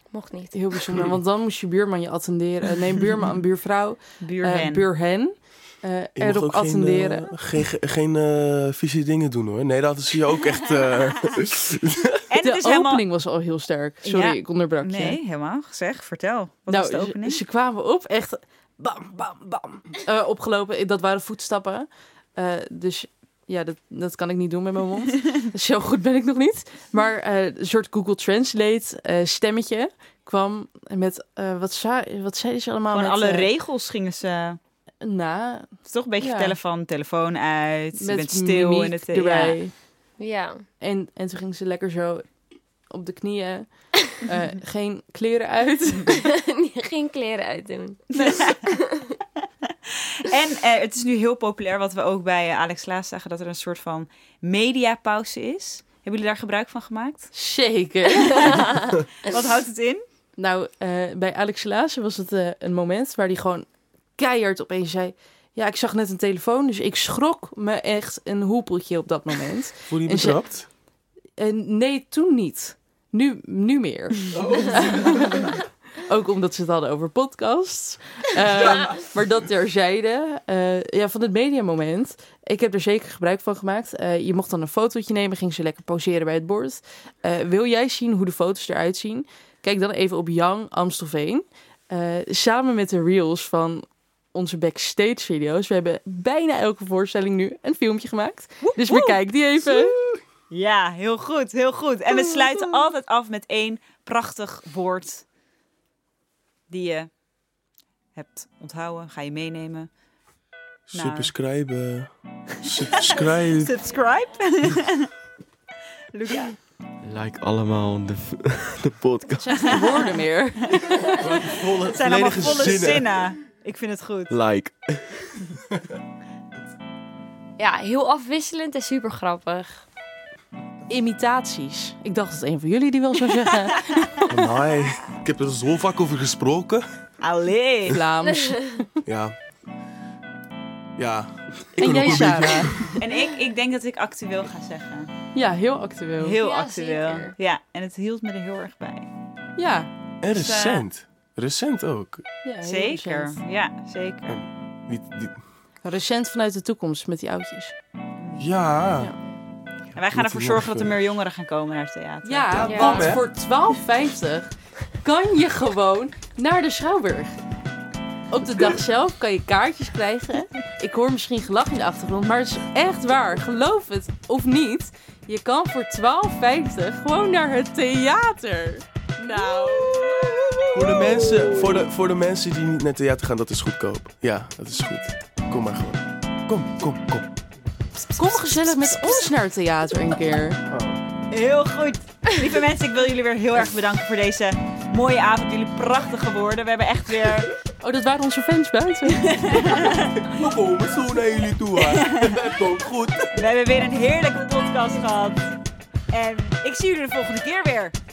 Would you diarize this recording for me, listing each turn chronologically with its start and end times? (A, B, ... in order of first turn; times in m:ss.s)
0:00.1-0:00.6 A
0:00.5-0:07.3 B
0:04.2-0:04.8 C
0:06.2-0:12.2 D
0:12.3-0:13.0 C
0:12.4-0:15.2 B
0:14.0-0:17.4 C
0:16.7-0:33.5 B
0:32.9-0:34.6 C
0:35.0-0:36.6 B
0:35.8-0:39.6 C
0:38.0-0:39.7 B
0:40.2-0:40.6 A
0:40.8-0:46.1 B
0:46.4-0:48.7 A
0:48.2-0:48.6 C
0:50.2-0:57.3 C
0:57.3-0:58.6 B
0:59.2-1:00.0 C
1:00.4-1:10.6 B
1:09.9-1:10.7 D
1:11.4-1:40.0 B
1:14.3-1:15.3 D
1:18.6-1:19.1 D
1:38.6-1:39.2 C
1:39.6-1:40.2 D
1:40.5-1:45.2 C
1:42.1-1:42.8 B
1:46.7-1:47.1 C
1:48.1-1:49.9 C
1:50.9-1:53.7 D
1:50.9-1:51.3 C
1:52.9-1:55.1 C
1:56.1-1:56.6 C
1:57.0-1:59.8 E
1:59.4-2:01.6 B
2:01.2-2:03.3 D
2:01.9-2:04.4 C
2:04.3-2:05.4 E
2:07.6-2:09.9 A
2:10.9-2:14.3 B
2:14.3-2:17.1 D
2:17.2-2:18.0 C
2:17.9-2:18.9 B
2:19.0-2:19.4 D
2:21.0-2:23.0 D
2:21.8-2:22.9 B
2:23.0-2:25.1 C
2:25.3-2:26.4 B
2:26.2-2:29.1 C
2:26.4-2:27.4 A
2:29.6-2:29.9 B
2:30.2-2:32.3 D
2:30.3-2:30.8 C
2:32.4-2:33.4 B
2:32.6-2:34.4 C
2:34.3-2:35.4 D
2:35.8-2:37.8 B
2:38.2-2:38.5 C
2:38.4-2:39.1 D
2:39.9-2:43.2 C
2:40.0-2:41.0 D
2:42.2-2:47.4 B
2:42.5-2:43.2 D
2:42.6-2:43.0 A
2:48.3-3:01.8 B
3:00.7-3:07.3 D
3:08.1-3:10.6 B
3:08.2-3:09.2 C
3:10.7-3:11.0 D
3:11.3-3:17.5 C
3:17.8-3:20.0 B
3:19.3-3:20.0 C
3:20.2-3:23.4 D
3:23.3-3:25.5 C
3:26.1-3:27.9 C